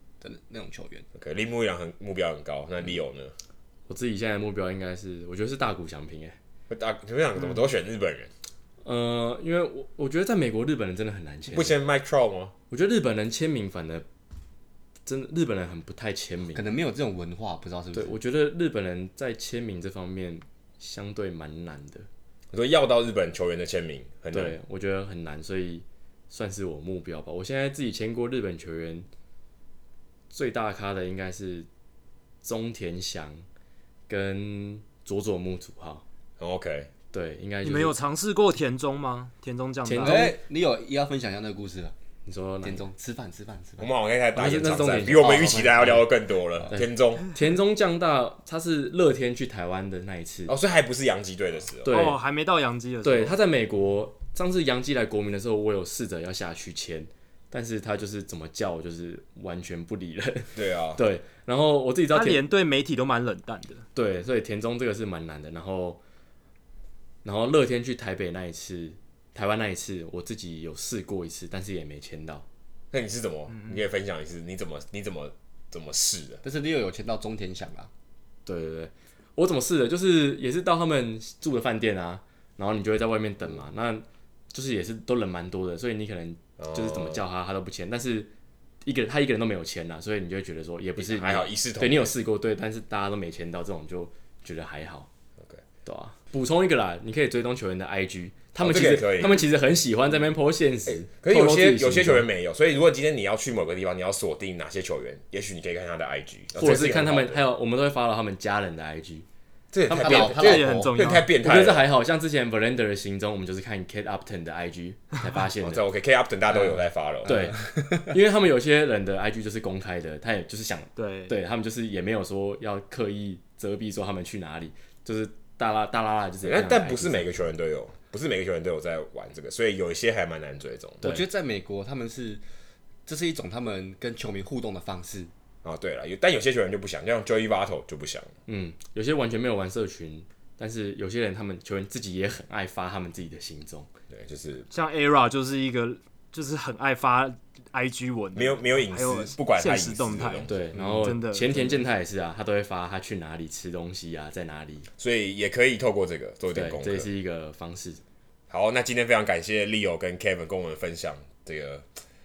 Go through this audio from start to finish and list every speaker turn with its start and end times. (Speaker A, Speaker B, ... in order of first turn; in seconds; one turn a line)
Speaker A: 0.2-1.1
Speaker B: 1.1-3.3
Speaker C: 3.9-6.4
Speaker B: 6.7-8.3
Speaker C: 8.8-11.7
Speaker B: 11.5-12.5
Speaker C: 12.7-14.1
Speaker C: 15.1-16.6
Speaker A: 16.5-18.1
Speaker C: 17.9-22.1
Speaker B: 22.5-24.6
Speaker C: 24.3-29.1
Speaker C: 30.3-31.7
Speaker C: 32.4-33.5
Speaker C: 34.1-36.0
Speaker B: 36.4-36.9
Speaker C: 37.1-37.9
Speaker D: 37.6-40.3
Speaker C: 39.8-40.3
Speaker A: 40.0-41.9
Speaker C: 42.2-42.8
Speaker A: 42.6-43.9
Speaker B: 43.8-47.3
Speaker C: 44.3-46.0
Speaker A: 45.2-45.9
Speaker C: 46.7-50.5
Speaker B: 50.5-52.1
Speaker C: 51.8-52.2
Speaker D: 51.9-53.4
Speaker C: 53.0-62.4
Speaker B: 60.5-61.0
Speaker D: 62.1-63.8
Speaker C: 63.9-66.0
Speaker C: 67.2-72.4
Speaker B: 72.9-76.4
Speaker A: 76.4-77.9
Speaker C: 78.5-88.3
Speaker B: 86.6-87.2
Speaker C: 88.8-95.1
Speaker B: 91.0-92.1
Speaker C: 95.8-102.2
Speaker B: 98.6-99.4
Speaker B: 100.9-107.4
Speaker C: 106.5-109.2
Speaker B: 109.7-111.9
Speaker C: 109.9-110.2
Speaker A: 109.9-111.0
Speaker D: 110.0-111.3
Speaker C: 111.4-115.8
Speaker B: 115.6-117.5
Speaker C: 117.2-127.3
Speaker A: 117.2-118.0
Speaker D: 121.0-121.3
Speaker B: 126.4-131.1
Speaker A: 131.0-132.4
Speaker A: 133.1-135.3
Speaker B: 135.6-138.3
Speaker C: 138.5-143.9
Speaker B: 144.1-144.7
Speaker D: 144.7-150.5
Speaker B: 148.3-150.7
Speaker C: 150.5-154.9
Speaker D: 151.0-151.5
Speaker B: 155.0-157.1
Speaker C: 156.5-158.0
Speaker B: 158.5-161.9